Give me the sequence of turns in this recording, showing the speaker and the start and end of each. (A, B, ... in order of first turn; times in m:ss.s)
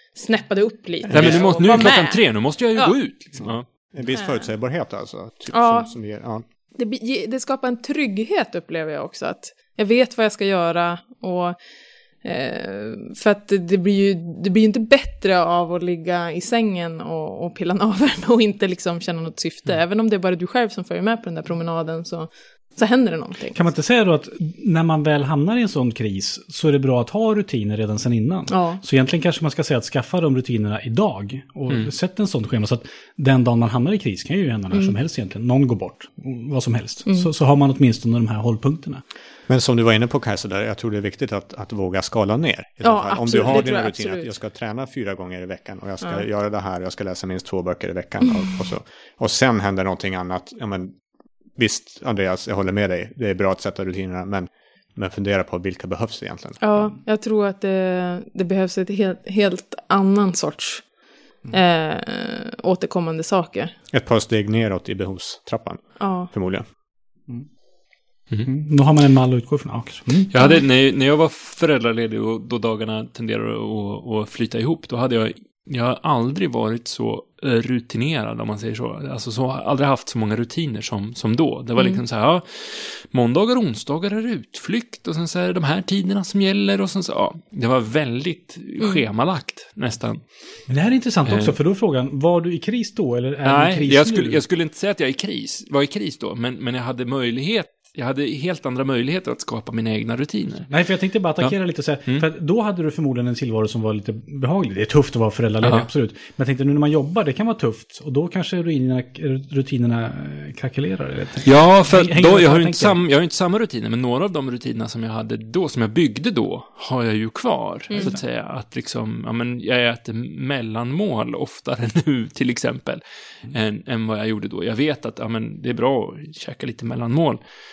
0:00.1-0:03.0 A
0:01.0-0:01.9 B
0:01.1-0:03.7 C
0:03.4-0:06.4 B
0:04.1-0:04.5 A
0:05.5-0:05.9 A
0:06.8-0:11.6 A
0:12.2-0:23.7 A
0:23.5-0:39.0 D
0:28.5-0:28.8 A
0:39.5-0:51.0 B
0:42.8-0:44.3 A
0:51.6-0:56.9 B
0:56.6-1:00.9 A
1:01.5-1:03.7 A
1:03.9-1:06.7 B
1:06.0-1:06.3 A
1:08.4-1:10.3 D
1:10.3-1:30.2 C
1:21.8-1:22.0 A
1:28.8-1:29.0 A
1:30.7-1:34.4 D
1:31.2-1:31.6 C
1:33.4-1:40.7 C
1:40.7-1:53.0 D
1:45.6-1:45.9 C
1:51.4-2:07.4 C
1:57.9-1:58.2 A